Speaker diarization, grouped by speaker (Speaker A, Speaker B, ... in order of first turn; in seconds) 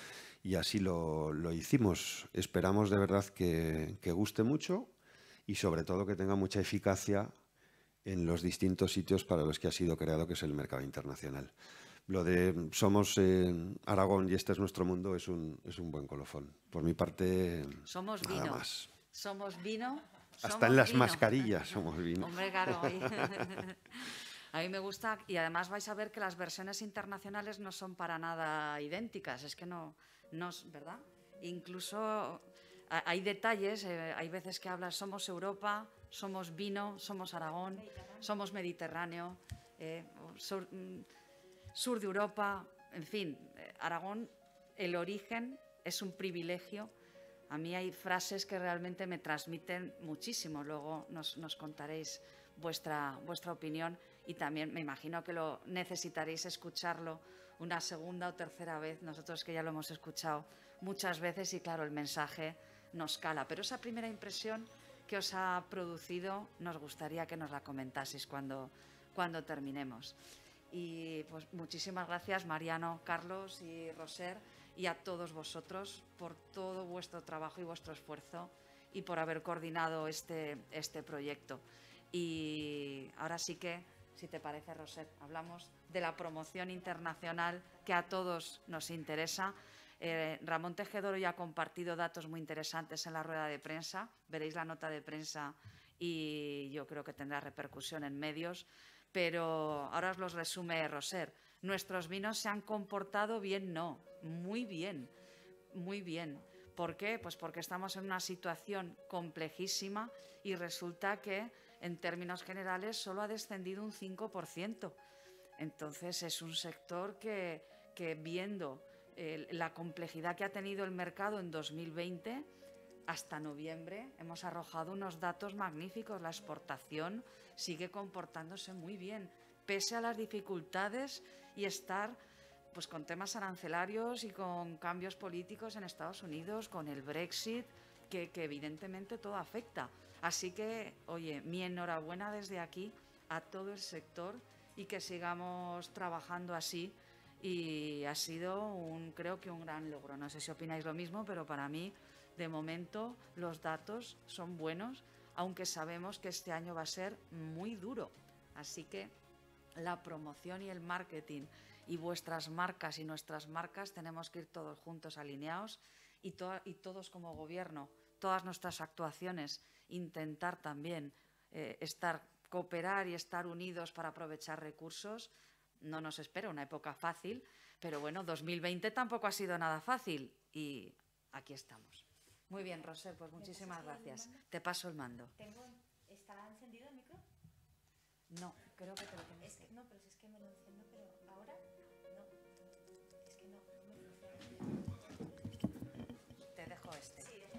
Speaker A: 0.4-4.9, 5.5-7.3, 8.1-11.5, 12.1-18.9, 20.4-23.4
Speaker B: 17.9-21.3, 22.2-41.1, 41.8-46.9, 47.5-70.2, 70.7-105.1, 105.7-115.0, 115.6-122.5, 123.1-132.2, 132.7-159.1, 159.8-185.3, 188.3-189.7, 196.5-197.4
Speaker C: 183.4-184.4, 185.4-187.2, 189.4-192.3, 193.2-194.6